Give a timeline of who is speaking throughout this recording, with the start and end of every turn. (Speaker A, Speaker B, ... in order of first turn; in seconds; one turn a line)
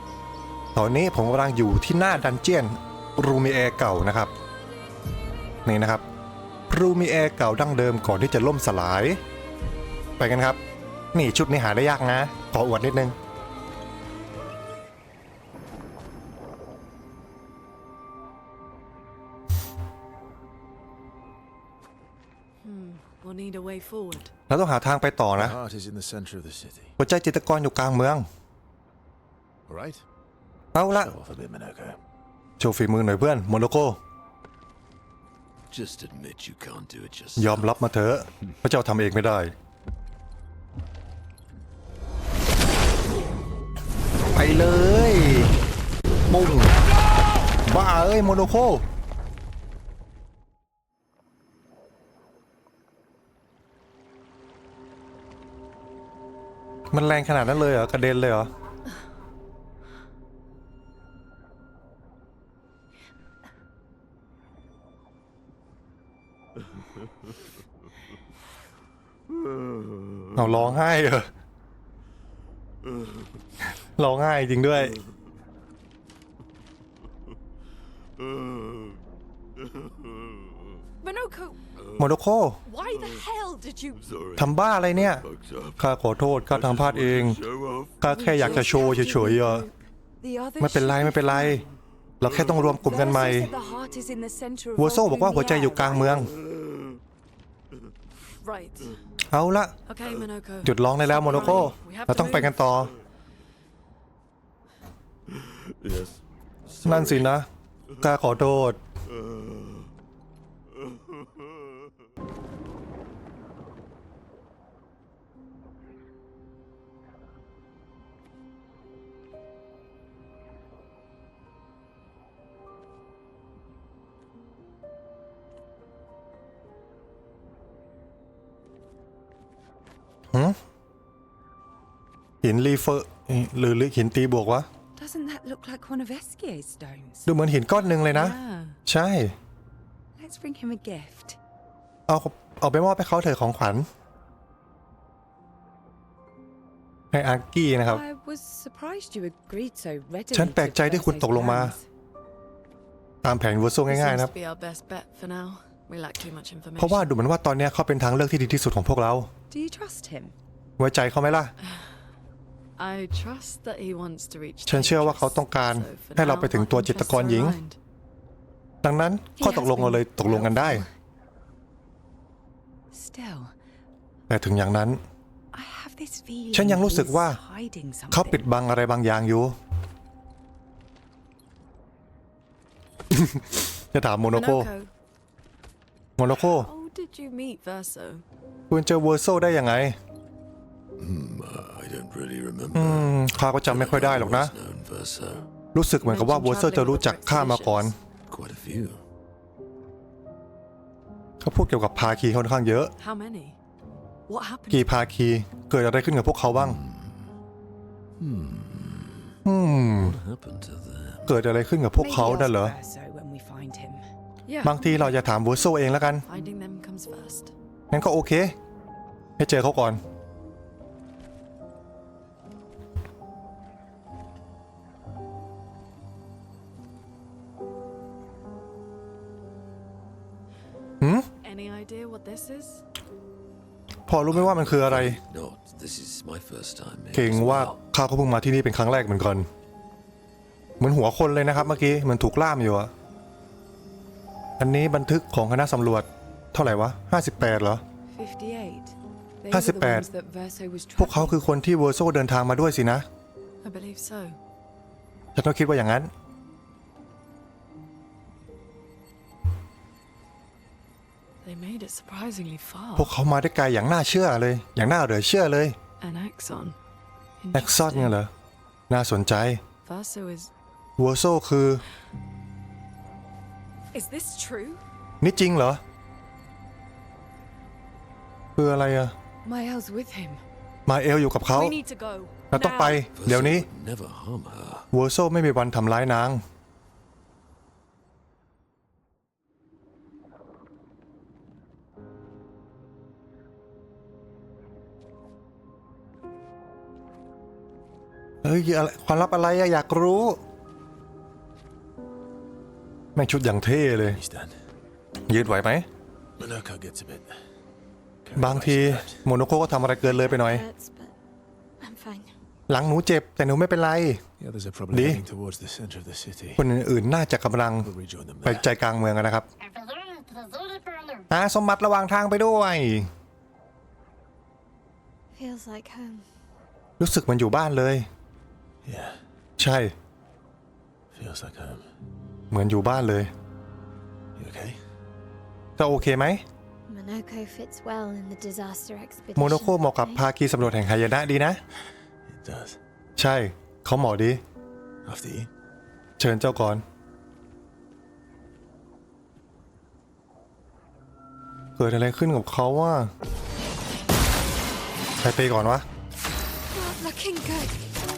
Speaker A: 0.7-4.3
Speaker A: 5.7-6.0
Speaker A: 6.7-9.2
Speaker A: 10.2-10.6
Speaker A: 11.1-13.1
Speaker B: 22.6-24.3
Speaker A: 24.5-25.6
Speaker C: 25.4-26.9
Speaker A: 27.0-28.3
Speaker C: 29.7-30.0
Speaker A: 30.7-31.1
Speaker C: 30.9-32.0
Speaker A: 32.6-34.0
Speaker D: 35.7-37.8
Speaker A: 37.4-39.5
Speaker A: 44.3-45.5
Speaker A: 46.3-46.8
Speaker A: 47.6-48.8
Speaker A: 56.9-58.5
Speaker A: 70.3-71.3
Speaker A: 74.0-75.0
Speaker B: 81.0-81.6
Speaker A: 82.0-82.6
Speaker B: 82.7-84.1
Speaker D: 84.1-85.8
Speaker A: 84.3-85.2
Speaker A: 85.8-87.4
Speaker D: 86.5-88.0
Speaker A: 88.0-89.7
Speaker E: 88.0-91.8
Speaker B: 88.4-89.2
Speaker A: 90.6-91.7
Speaker A: 92.2-93.5
Speaker E: 92.5-96.2
Speaker A: 94.8-96.3
Speaker B: 98.4-99.0
Speaker A: 99.3-99.7
Speaker B: 99.8-102.8
Speaker A: 100.6-102.9
Speaker D: 105.8-106.2
Speaker D: 106.7-107.2
Speaker A: 106.8-107.5
Speaker A: 108.0-108.8
Speaker A: 132.4-134.7
Speaker E: 134.9-137.3
Speaker A: 137.2-139.3
Speaker B: 137.7-138.8
Speaker E: 140.2-141.4
Speaker A: 142.1-143.9
Speaker A: 147.1-148.0
Speaker E: 147.9-151.8
Speaker A: 150.3-151.8
Speaker A: 153.2-154.3
Speaker B: 153.9-157.1
Speaker A: 156.8-159.3
Speaker E: 159.5-160.3
Speaker A: 160.8-161.5
Speaker B: 162.8-167.8
Speaker A: 164.7-167.6
Speaker A: 168.8-170.8
Speaker E: 169.4-170.9
Speaker E: 172.9-173.5
Speaker A: 174.3-175.0
Speaker E: 175.5-178.5
Speaker A: 176.5-177.4
Speaker A: 178.1-179.5
Speaker A: 183.1-184.7
Speaker B: 184.3-184.9
Speaker A: 186.2-186.7
Speaker B: 186.4-188.2
Speaker A: 188.7-189.9
Speaker D: 191.0-195.5
Speaker A: 192.7-194.5
Speaker A: 195.7-197.9
Speaker B: 196.0-197.9
Speaker D: 198.3-199.0
Speaker A: 201.4-202.9
Speaker B: 203.0-203.6
Speaker B: 204.3-204.9
Speaker A: 204.7-206.8
Speaker D: 206.6-207.3
Speaker D: 208.2-209.3
Speaker A: 209.4-210.2
Speaker D: 210.0-211.4
Speaker A: 211.2-212.8
Speaker E: 211.9-214.1
Speaker B: 214.5-215.2
Speaker A: 214.6-216.2
Speaker B: 216.3-217.5
Speaker A: 217.9-218.6
Speaker A: 219.4-220.0
Speaker A: 231.0-231.3
Speaker B: 231.4-232.8
Speaker A: 234.1-235.2
Speaker D: 234.3-237.8
Speaker A: 237.1-239.5
Speaker A: 240.8-242.9
Speaker A: 244.6-247.8
Speaker E: 248.1-251.4
Speaker A: 249.5-250.1
Speaker A: 251.0-253.0
Speaker B: 253.6-254.4
Speaker A: 255.3-256.1
Speaker B: 261.4-263.1
Speaker A: 262.9-265.8
Speaker B: 266.0-266.8
Speaker B: 267.4-268.1
Speaker A: 267.5-268.3
Speaker A: 268.9-269.6
Speaker B: 269.8-270.5
Speaker A: 271.0-271.8
Speaker B: 273.9-274.8
Speaker E: 274.1-274.5
Speaker A: 275.2-275.8
Speaker A: 278.6-279.1
Speaker E: 279.4-280.4
Speaker A: 280.9-281.7
Speaker B: 281.4-283.0
Speaker A: 282.5-283.6
Speaker D: 283.1-284.9
Speaker A: 284.9-286.4
Speaker A: 298.4-300.4
Speaker A: 303.1-304.2
Speaker C: 304.0-304.6
Speaker A: 305.3-305.9
Speaker C: 306.4-307.4
Speaker C: 308.2-309.2
Speaker A: 308.4-310.6
Speaker F: 310.0-311.1
Speaker F: 311.8-312.3
Speaker A: 312.7-314.2
Speaker C: 314.4-316.6
Speaker A: 314.9-315.2
Speaker A: 316.6-317.9
Speaker C: 317.8-318.7
Speaker A: 318.4-319.5
Speaker F: 319.6-321.2
Speaker A: 321.3-323.1
Speaker F: 325.4-326.2
Speaker A: 327.0-328.1
Speaker C: 328.8-329.2
Speaker A: 329.6-329.9
Speaker C: 331.1-331.9
Speaker A: 332.5-333.3
Speaker C: 334.4-334.8
Speaker A: 335.8-336.4
Speaker F: 336.9-340.2
Speaker A: 339.4-341.6
Speaker C: 342.2-342.8
Speaker A: 343.2-344.4
Speaker C: 345.0-345.5
Speaker A: 346.2-346.8
Speaker A: 351.8-353.1
Speaker A: 355.2-355.8
Speaker F: 356.7-357.8